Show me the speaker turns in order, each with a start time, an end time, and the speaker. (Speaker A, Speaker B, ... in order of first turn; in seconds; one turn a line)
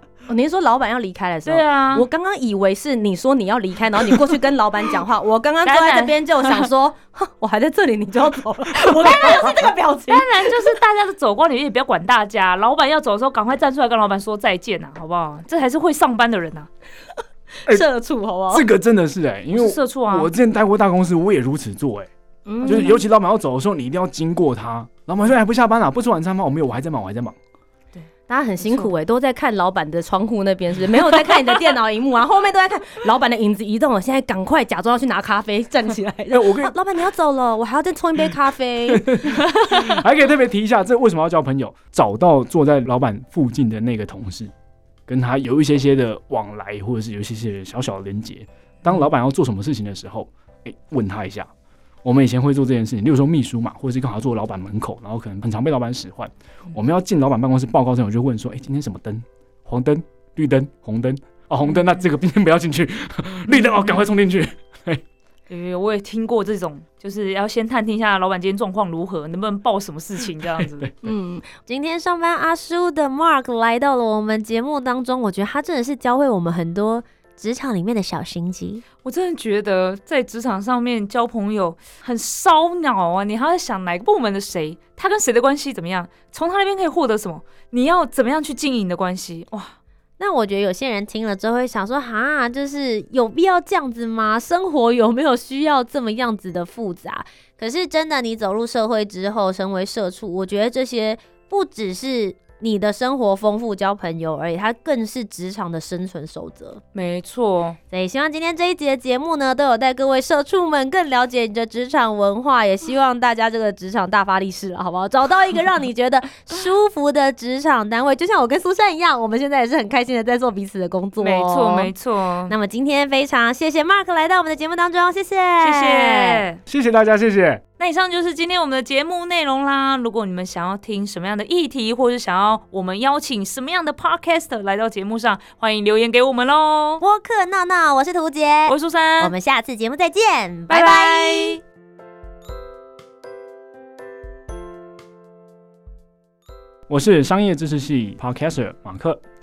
Speaker A: 0.3-10.7
Speaker B: 1.4-2.0
Speaker B: 5.7-6.7
Speaker B: 10.1-16.7
Speaker A: 17.7-18.6
Speaker C: 18.5-22.1
Speaker B: 19.5-20.3
Speaker A: 22.5-23.0
Speaker B: 22.6-22.9
Speaker C: 22.6-27.4
Speaker A: 28.3-39.2
Speaker B: 28.6-28.9
Speaker C: 36.3-36.7
Speaker C: 38.9-44.5
Speaker C: 45.1-51.5
Speaker C: 52.0-65.0
Speaker B: 63.5-63.9
Speaker B: 65.5-70.9
Speaker C: 70.8-71.1
Speaker A: 71.0-78.8
Speaker B: 79.0-89.8
Speaker A: 90.2-106.8
Speaker B: 106.9-107.8
Speaker A: 107.9-121.9
Speaker B: 121.2-122.5
Speaker A: 122.5-126.4
Speaker B: 125.6-126.6
Speaker C: 126.7-127.6
Speaker B: 127.8-137.0
Speaker A: 137.0-141.6
Speaker B: 138.7-139.3
Speaker B: 140.7-141.6
Speaker C: 146.9-149.2